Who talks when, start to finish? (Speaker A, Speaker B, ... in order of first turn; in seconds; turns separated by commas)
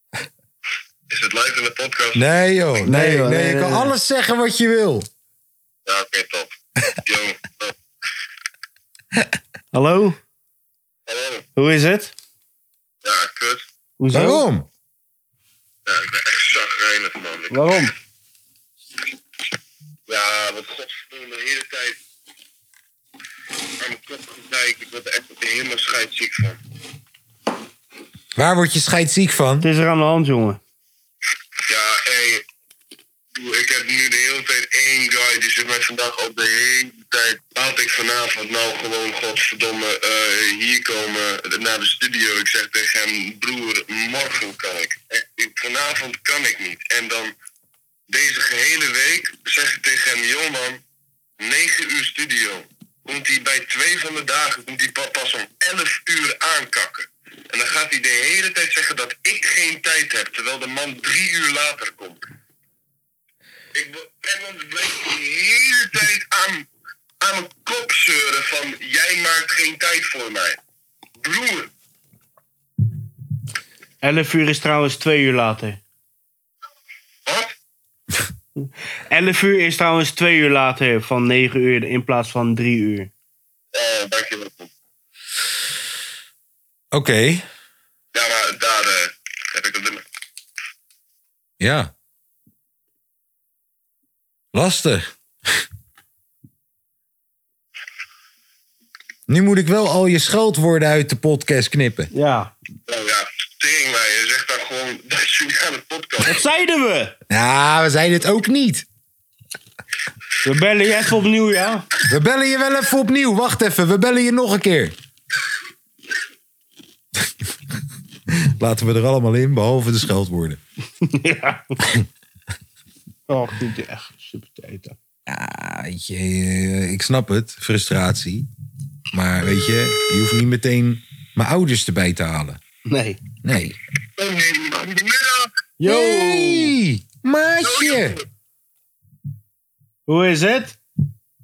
Speaker A: 1.1-2.3, Speaker B: 2.1-5.1, Speaker C: 2.8-3.9, Speaker A: 5.8-6.5, Speaker A: 7.0-7.7, Speaker C: 9.7-10.2, Speaker A: 11.1-11.4, Speaker C: 11.6-12.1, Speaker A: 13.0-13.6, Speaker C: 14.0-14.4, Speaker B: 14.1-14.7, Speaker A: 15.8-17.9, Speaker C: 17.5-17.9, Speaker A: 20.1-22.0, Speaker A: 23.8-26.6, Speaker B: 28.4-29.7, Speaker C: 29.6-30.6, Speaker A: 31.6-32.4, Speaker A: 33.3-47.3, Speaker A: 48.1-50.8, Speaker A: 51.4-62.2, Speaker A: 63.7-66.7, Speaker A: 67.2-70.6, Speaker A: 71.2-71.7, Speaker C: 74.0-75.8, Speaker A: 77.2-77.5, Speaker C: 78.6-83.1, Speaker A: 83.7-84.7, Speaker B: 86.9-87.5, Speaker A: 88.1-90.0, Speaker B: 91.6-91.9, Speaker B: 94.5-95.6, Speaker B: 99.3-102.1, Speaker C: 102.1-102.5, Speaker A: 102.9-106.4, Speaker C: 106.2-107.2, Speaker B: 107.3-108.8, Speaker C: 110.4-111.9, Speaker B: 112.0-114.9, Speaker B: 118.3-120.6, Speaker C: 121.0-121.8, Speaker B: 121.8-122.1, Speaker C: 123.3-125.0, Speaker B: 125.3-128.5, Speaker B: 129.1-132.6, Speaker C: 132.8-133.2, Speaker B: 133.4-133.8, Speaker A: 134.2-135.5, Speaker C: 135.8-136.8, Speaker B: 135.8-138.2, Speaker A: 137.6-138.2, Speaker C: 140.1-140.8